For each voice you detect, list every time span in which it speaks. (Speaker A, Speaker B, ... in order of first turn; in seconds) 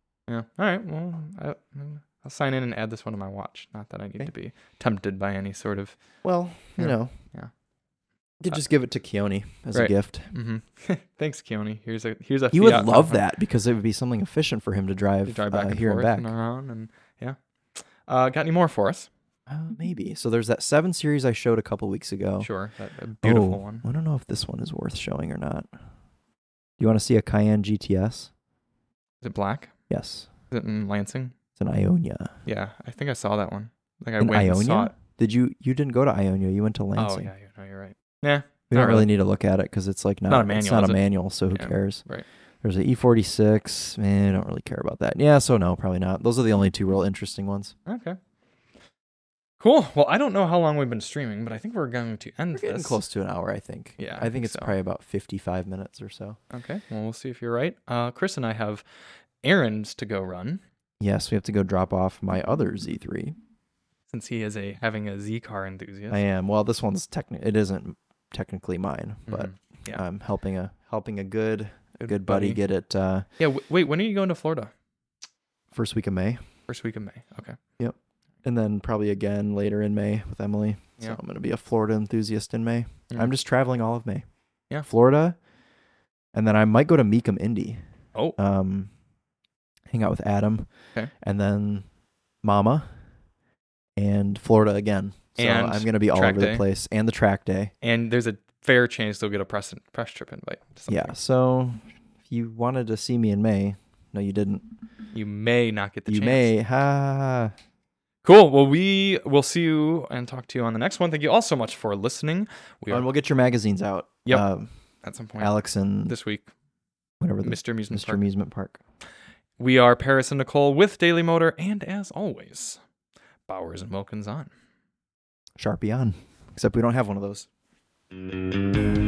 Speaker A: 0.3-6.0, 6.8-7.5, 9.7-13.2, 15.2-19.1, 22.4-23.9, 29.2-29.7, 30.5-31.4, 32.5-35.0, 37.0-39.1, 40.3-42.3, 47.9-48.2, 49.6-53.0, 54.0-54.7, 56.5-58.8, 59.4-60.6, 64.1-66.2, 69.3-70.0, 72.0-72.6, 73.4-74.7, 76.7-77.6, 95.4-96.6, 97.8-101.2, 105.1-106.5, 108.2-113.1, 115.0-115.5, 116.1-116.5, 117.4-118.2, 119.6-122.8, 123.5-124.5
Speaker B: 6.2-7.1, 8.4-10.3, 12.5-16.3, 19.5-22.5, 23.2-25.7, 26.8-28.3, 29.9-30.3, 31.6-32.4, 34.2-37.3, 38.7-42.0, 42.6-47.8, 52.5-56.4, 61.0-63.4, 66.1-73.3, 75.7-76.4, 77.8-84.2, 84.8-85.4, 86.3-87.8, 88.4-88.9, 89.9-90.7, 91.2-91.8, 92.4-92.9, 94.0-97.7, 100.9-104.6, 106.1-107.5, 112.9-114.7, 115.4-116.2, 117.2-118.8, 125.6-127.5